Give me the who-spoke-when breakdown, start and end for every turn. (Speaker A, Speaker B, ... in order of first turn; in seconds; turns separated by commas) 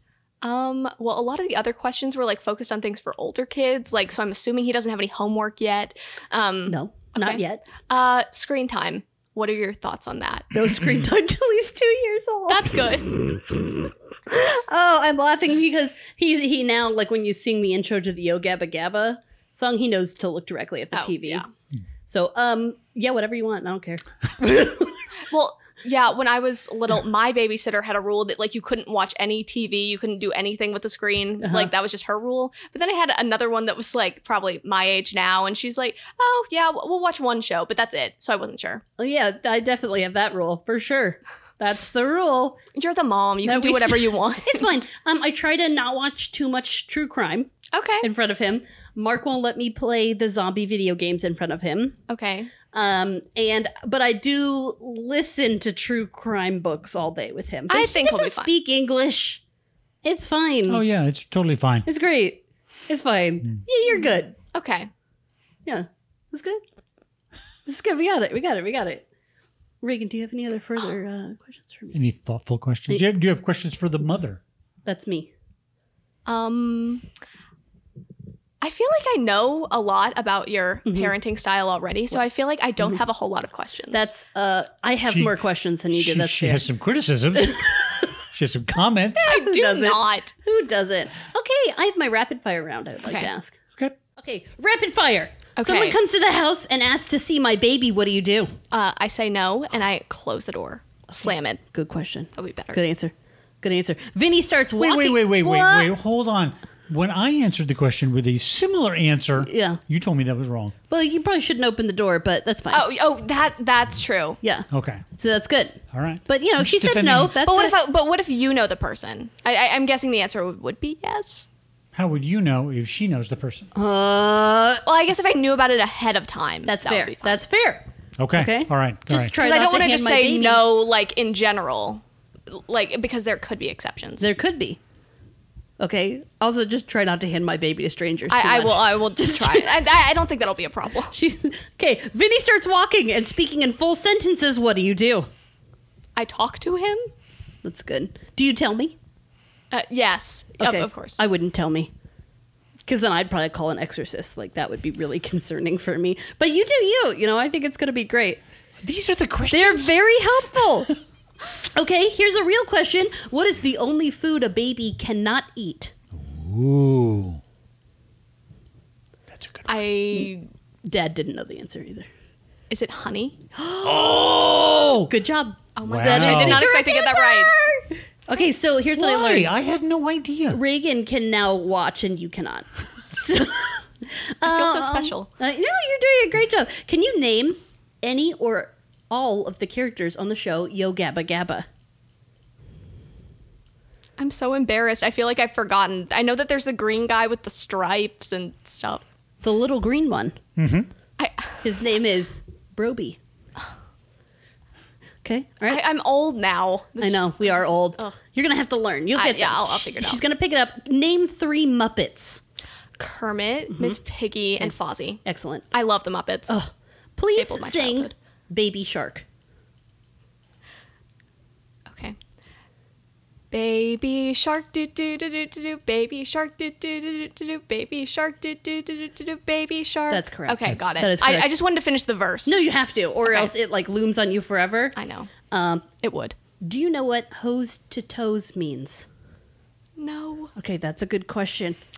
Speaker A: 0.4-10.5, Speaker B: 6.7-7.7, Speaker B: 10.5-21.4, Speaker A: 12.5-13.1, Speaker A: 20.9-21.5, Speaker B: 22.1-25.0, Speaker A: 25.3-38.8, Speaker B: 31.4-31.7, Speaker B: 39.0-42.6, Speaker A: 42.7-44.7, Speaker B: 43.4-52.0, Speaker A: 47.7-48.1, Speaker A: 52.1-52.5, Speaker B: 52.7-59.4, Speaker A: 57.7-58.5, Speaker B: 60.0-60.8, Speaker C: 60.7-61.9, Speaker B: 61.9-64.3, Speaker A: 64.5-64.9, Speaker B: 65.7-66.6, Speaker B: 67.6-69.0, Speaker B: 69.8-72.0, Speaker C: 71.9-74.4, Speaker B: 74.8-75.3, Speaker A: 76.2-77.0, Speaker A: 78.6-84.0, Speaker B: 80.9-81.1, Speaker B: 83.9-86.7, Speaker C: 85.1-85.4, Speaker C: 85.9-89.3, Speaker B: 89.2-93.5, Speaker A: 89.3-90.3, Speaker B: 94.2-98.5, Speaker A: 95.6-96.0, Speaker A: 98.7-101.6, Speaker B: 101.7-105.9, Speaker A: 102.3-102.8, Speaker C: 104.8-110.7, Speaker B: 109.4-109.8, Speaker B: 110.9-112.8, Speaker A: 112.7-114.4, Speaker B: 114.4-117.7, Speaker C: 114.7-115.0, Speaker C: 115.9-117.4, Speaker A: 117.4-121.5, Speaker C: 121.9-123.7, Speaker B: 123.7-124.8, Speaker A: 124.8-127.4, Speaker B: 126.7-130.6, Speaker C: 128.2-129.3, Speaker A: 129.3-134.2, Speaker B: 134.2-134.8, Speaker B: 135.8-139.8, Speaker A: 138.3-141.1, Speaker B: 141.1-145.3, Speaker A: 146.2-147.1, Speaker B: 147.6-148.9, Speaker A: 149.7-151.2, Speaker B: 150.6-151.9, Speaker B: 152.9-158.4, Speaker C: 158.8-159.9, Speaker B: 159.5-160.9, Speaker B: 161.7-165.9, Speaker C: 166.1-167.4, Speaker C: 169.3-169.8, Speaker A: 169.7-170.5, Speaker B: 170.8-172.1, Speaker A: 172.7-173.4, Speaker B: 173.6-179.5, Speaker C: 173.8-175.1, Speaker A: 175.8-177.6, Speaker C: 175.8-176.7, Speaker C: 178.9-180.6, Speaker B: 180.5-191.7, Speaker A: 184.4-185.3, Speaker A: 194.2-199.0, Speaker B: 199.4-200.3, Speaker C: 200.6-200.9, Speaker A: 201.2-201.6, Speaker B: 201.6-203.2, Speaker B: 205.2-205.8, Speaker A: 205.7-208.2, Speaker B: 207.0-212.4, Speaker A: 209.1-210.2, Speaker A: 213.0-216.6, Speaker B: 213.7-214.0, Speaker B: 214.6-215.7, Speaker B: 216.5-219.2, Speaker A: 217.3-218.1, Speaker A: 221.9-222.2, Speaker A: 223.5-232.5, Speaker B: 230.1-231.5, Speaker B: 232.4-234.9, Speaker A: 233.2-233.5, Speaker A: 235.0-235.3, Speaker B: 235.5-235.9, Speaker A: 236.0-236.3, Speaker B: 236.6-239.1, Speaker A: 240.0-240.5, Speaker B: 240.6-241.8